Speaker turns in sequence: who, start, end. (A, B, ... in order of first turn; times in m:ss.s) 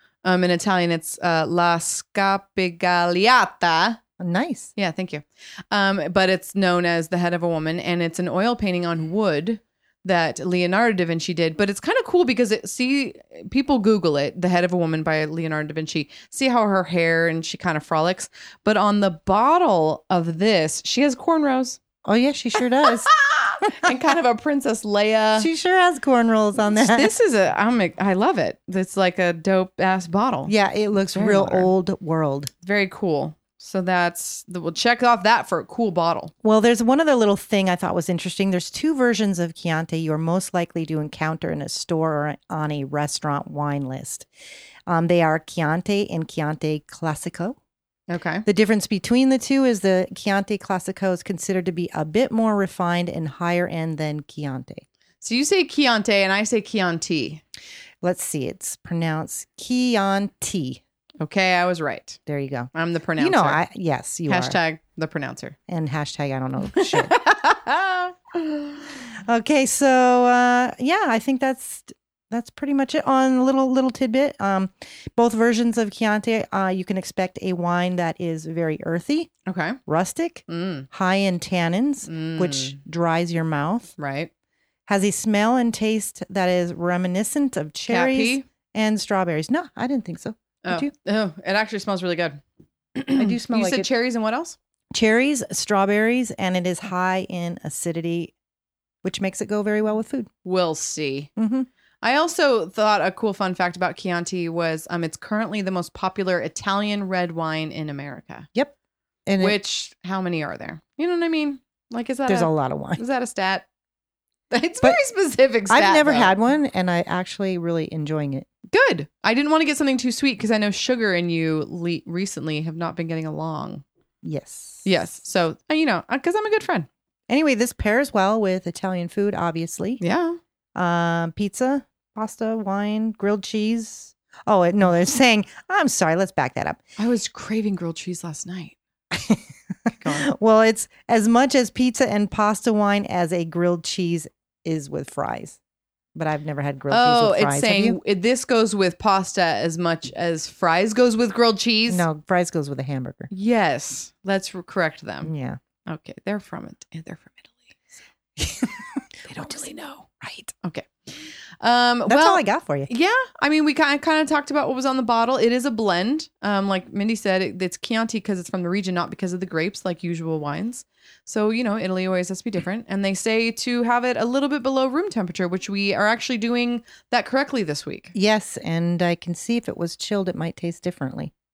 0:00.2-0:04.0 A
0:04.2-0:04.7 B
0:04.8-0:21.8 A
0:22.0-0:23.1 B
0:22.8-0:25.5 A
0:23.6-0:23.9 B
0:25.4-0:27.1 B
0:26.6-0:30.5 A
0:30.4-0:32.5 B
0:31.1-0:31.7 A
0:32.6-0:36.3 A
0:36.4-0:44.3 B
0:44.9-0:47.6 B
0:48.1-0:48.4 A
0:48.4-0:54.8 B
0:55.2-0:57.4 A
0:58.0-1:00.8 B
1:01.2-1:02.2 A
1:02.2-1:04.6 B
1:02.7-1:03.6 A
1:04.3-1:05.6 A
1:05.7-1:07.2 B
1:06.8-1:08.8 A
1:09.1-1:19.3 B
1:19.4-1:19.8 A
1:19.8-1:23.9 B
1:20.5-1:20.9 A
1:22.0-1:22.8 A
1:24.0-1:24.3 A
1:24.9-1:30.9 B
1:27.9-1:28.5 A
1:30.6-1:32.4 A
1:33.0-1:34.6 A
1:33.2-1:33.9 B
1:34.9-1:38.3 B
1:39.0-1:40.3 B
1:40.4-1:41.3 A
1:41.4-1:41.7 B
1:42.0-1:48.5 A
1:49.2-1:49.6 B
1:49.4-1:53.7 A
1:52.3-1:53.0 B
1:54.5-1:56.4 A
1:55.7-1:58.5 B
1:58.7-2:03.8 A
2:04.2-2:04.9 B
2:04.8-2:06.9 A
2:07.3-2:10.0 B
2:10.0-2:10.4 A
2:10.7-2:16.8 B
2:17.0-2:18.8 A
2:19.1-2:25.6 B
2:20.0-2:20.3 A
2:26.1-2:28.0 B
2:26.9-2:32.0 A
2:31.9-2:33.3 B
2:33.3-2:35.3 A
2:35.2-2:35.6 B
2:35.8-2:37.8 A
2:38.4-2:39.6 B
2:39.3-2:40.1 A
2:40.2-2:40.5 B
2:40.6-2:58.1 A
2:42.0-2:42.9 B
2:58.1-3:01.3 B